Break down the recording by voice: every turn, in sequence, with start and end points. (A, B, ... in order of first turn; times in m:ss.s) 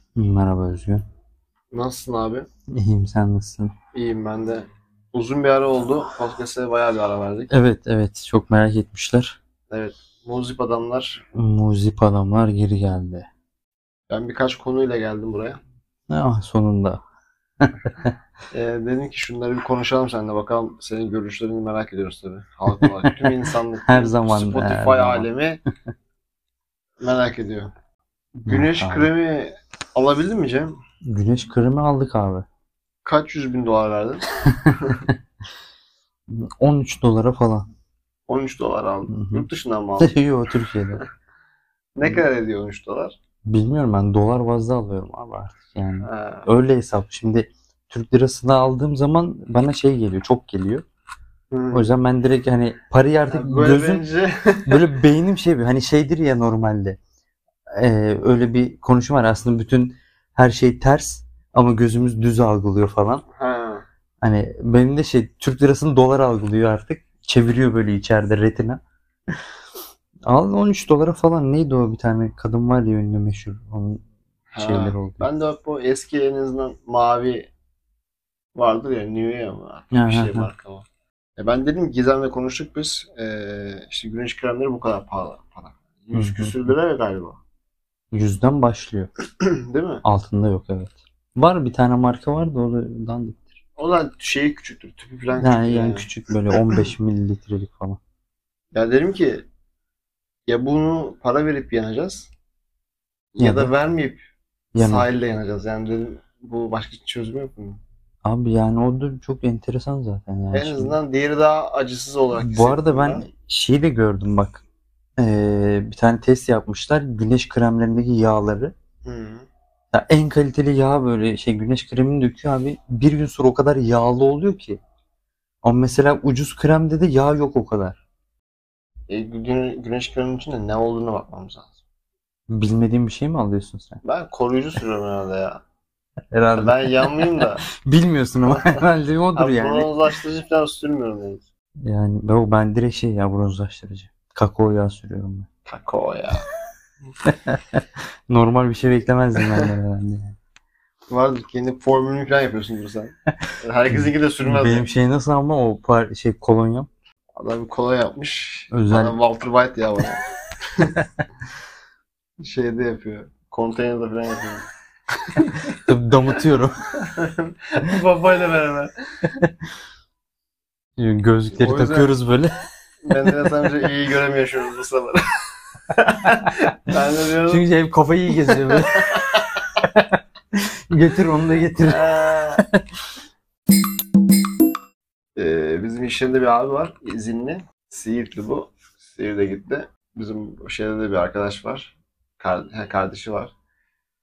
0:00.2-0:01.0 A
0:01.7-0:02.4 B
0:02.7-0:03.7 A
0:03.9-0:07.5 B
0:07.5-0:09.4 A
0:09.7-0:11.2 B
0:11.3-0:13.3 A
0:14.1-0:15.6 B
0:16.1-0:17.0 A
0:17.6-0:18.1 A
0:18.5-0:25.6 B
0:23.8-0:25.3 A
0:27.0-0:27.7 B
0:28.4-0:30.7 B
0:28.4-0:29.1 A
0:31.0-0:32.4 A
0:33.0-0:35.0 B
0:36.3-0:37.7 A
0:38.3-0:40.2 B
0:39.1-0:39.4 A
0:40.0-0:41.0 A
0:42.0-0:43.1 B
0:43.4-0:50.8 A
0:46.0-0:46.5 B
0:51.5-0:51.9 B
0:51.7-0:54.0 A
0:53.3-0:54.8 B
0:54.6-0:57.0 A
0:57.8-1:03.2 A
1:03.4-1:03.8 B
1:04.2-1:08.8 A
1:10.3-1:14.0 A
1:14.5-1:17.5 B
1:14.6-1:15.3 A
1:18.5-1:20.8 B
1:19.9-1:20.5 A
1:21.4-1:27.4 B
1:26.1-1:26.7 A
1:28.1-1:29.1 A
1:29.4-1:30.0 B
1:30.0-1:33.6 A
1:33.8-1:36.8 B
1:35.3-1:38.0 A
1:38.7-1:39.4 B
1:40.5-1:42.3 B
1:43.3-1:44.2 B
1:43.4-1:43.7 A
1:44.7-1:45.1 A
1:44.8-1:47.8 B
1:48.2-1:51.0 A
1:50.5-1:53.2 B
1:52.4-1:54.6 A
1:55.2-1:58.7 A
1:59.0-1:59.5 B
1:59.9-2:04.8 A
2:05.6-2:08.0 A
2:09.1-2:11.7 B
2:12.5-2:14.0 A
2:14.0-2:15.6 B
2:16.3-2:20.0 A
2:16.5-2:17.6 B
2:18.5-2:18.8 B
2:19.3-2:21.4 B
2:21.8-2:25.5 A
2:25.6-2:26.5 B
2:27.2-2:30.3 A
2:31.1-2:34.9 B
2:33.9-2:36.9 A
2:37.4-2:40.2 B
2:38.7-2:39.2 A
2:42.4-2:44.6 B
2:45.3-2:45.7 B
2:45.8-2:46.7 A
2:47.0-2:48.9 B
2:51.0-2:52.5 A
2:51.5-2:52.2 B
2:53.0-2:55.3 B
2:55.9-2:57.6 B
2:57.4-2:59.1 A
2:58.4-2:59.4 B
2:59.8-3:02.8 A
3:01.8-3:02.6 B
3:05.4-3:13.5 B